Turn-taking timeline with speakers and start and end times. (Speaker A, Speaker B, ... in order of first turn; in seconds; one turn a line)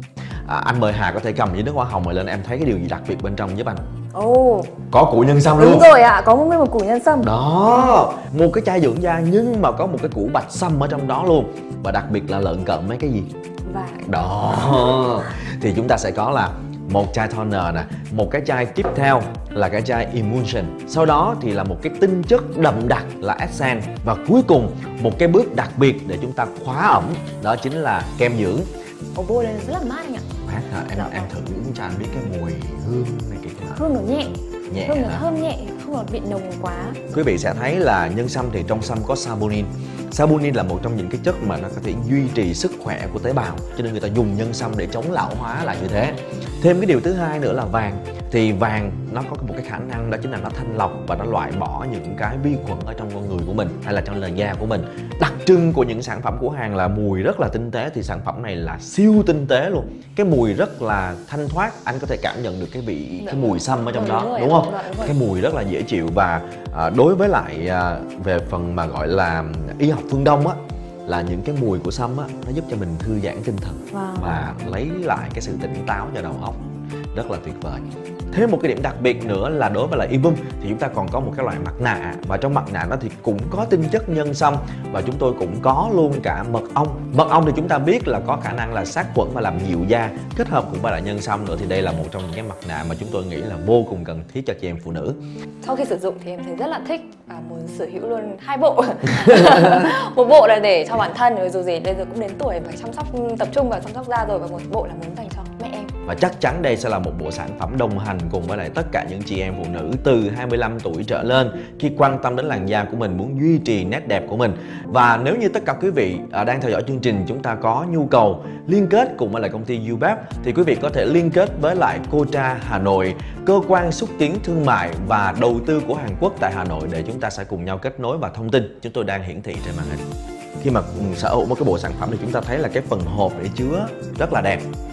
Speaker A: 0.5-3.8
Speaker B: 4.1-4.7
Speaker A: 4.9-5.9
Speaker B: 5.6-7.3
Speaker A: 7.2-13.3
Speaker B: 13.7-15.0
Speaker A: 14.0-28.7
Speaker B: 29.1-30.2
Speaker A: 30.4-34.0
Speaker B: 30.9-31.3
Speaker B: 33.8-34.3
Speaker A: 34.7-35.3
Speaker B: 34.8-37.0
Speaker A: 37.1-95.2
Speaker B: 63.2-65.2
Speaker B: 73.9-74.5
Speaker B: 95.6-105.9
Speaker A: 106.0-130.0
Speaker A: 130.6-134.7